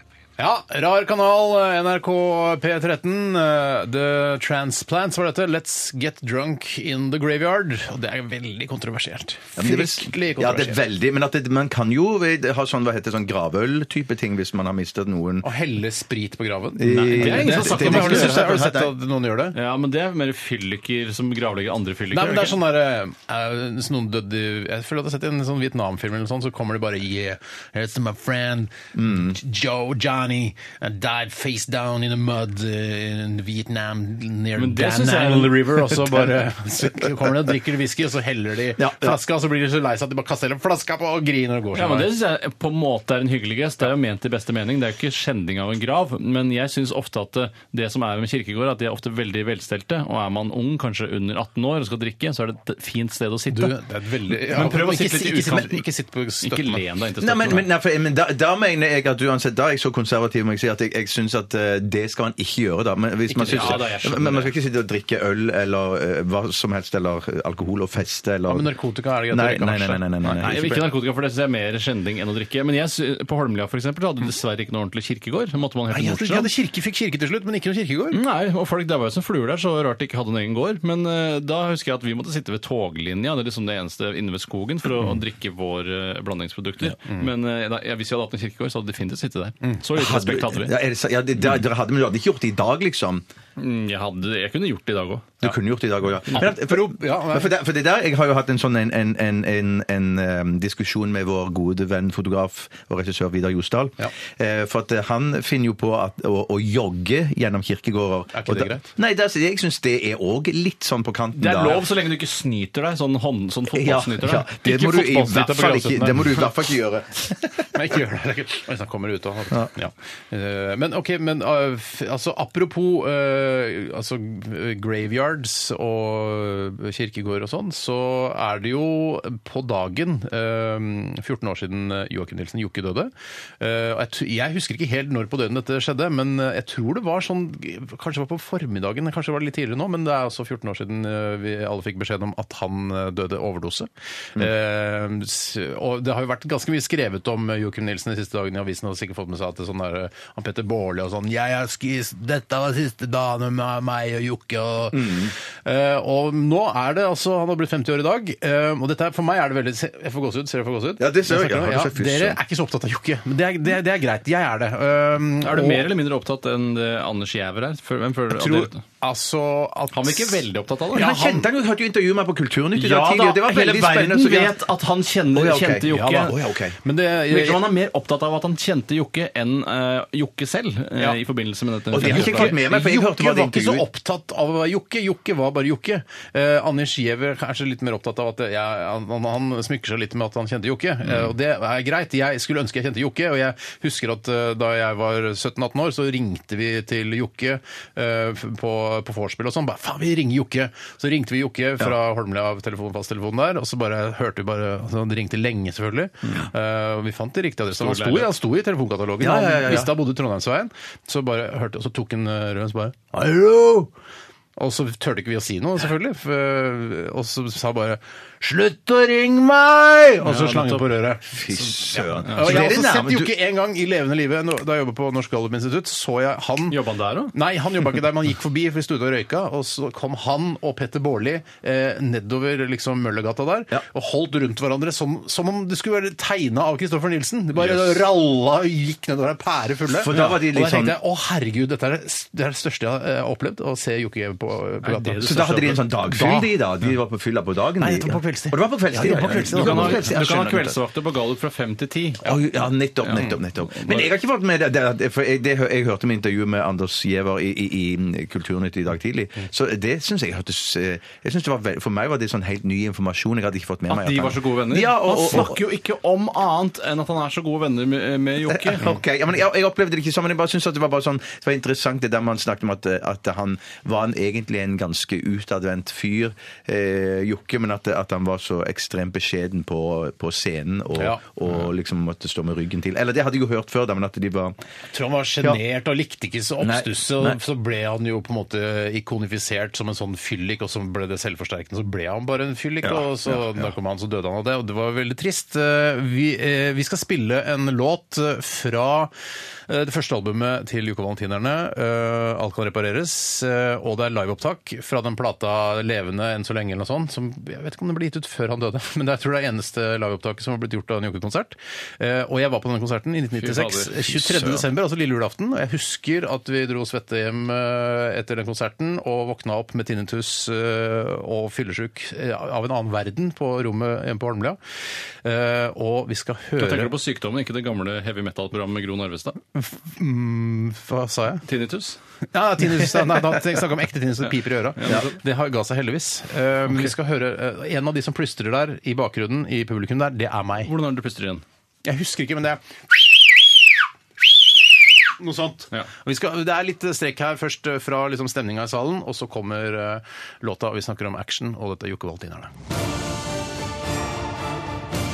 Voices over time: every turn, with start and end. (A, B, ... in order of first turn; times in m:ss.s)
0:00.4-0:10.8 A
0:09.6-0:15.5 B
0:15.4-0:19.6 A
0:16.8-0:18.9 B
0:17.1-0:18.5 C
0:19.5-0:22.6 C
0:22.1-0:42.1 A
0:28.9-0:29.4 B
0:34.6-0:35.8 C
0:38.8-0:39.2 B
0:41.7-0:53.8 C
0:53.5-0:56.8 A
0:54.3-0:55.8 C
0:56.4-0:57.6 C
0:57.2-1:08.7 B
1:03.3-1:03.8 A
1:03.4-1:04.5 C
1:08.5-1:10.8 A
1:09.3-1:10.7 B
1:10.4-1:16.5 C
1:15.9-1:18.2 A
1:18.1-1:30.8 C
1:29.9-1:33.2 B
1:33.6-1:35.4 C
1:35.4-1:51.8 B
1:36.3-1:37.5 A
1:48.3-1:48.9 A
1:51.4-1:54.6 C
1:53.7-1:57.7 B
1:54.6-1:56.4 A
1:57.7-2:45.8 A
2:34.9-2:35.3 B
2:41.0-2:42.4 B
2:45.4-2:48.8 C
2:48.3-2:51.4 A
2:49.9-2:51.2 C
2:50.9-2:54.6 B
2:52.7-2:56.4 C
2:55.3-2:56.8 B
2:55.9-2:57.7 A
2:57.3-3:02.6 C
3:01.9-3:03.8 B
3:02.0-3:33.9 A
3:27.8-3:28.3 C
3:29.2-3:30.0 B
3:34.6-3:46.8 A
3:40.2-3:40.8 C
3:41.3-3:43.3 B
3:42.3-3:42.7 C
3:46.7-3:47.3 C
3:47.3-4:05.2 A
3:59.9-4:01.0 B
4:04.8-4:05.9 C
4:05.2-4:10.8 B
4:06.0-4:06.5 A
4:07.8-4:10.2 A
4:09.3-4:12.3 C
4:12.2-4:25.6 B
4:13.0-4:14.0 C
4:23.9-4:28.8 C
4:28.5-4:44.6 B
4:41.0-4:41.2 A
4:44.9-4:59.1 A
4:46.6-4:47.4 B
4:52.8-4:53.4 B
4:59.7-5:24.6 A
5:13.4-5:14.5 C
5:25.2-5:26.9 A
5:26.6-5:29.4 C
5:29.5-5:31.4 A
5:31.4-5:32.0 C
5:32.3-5:40.7 A
5:34.8-5:35.2 C
5:40.6-5:41.4 C
5:41.8-5:43.6 A
5:44.2-5:44.5 A
5:45.2-5:52.5 A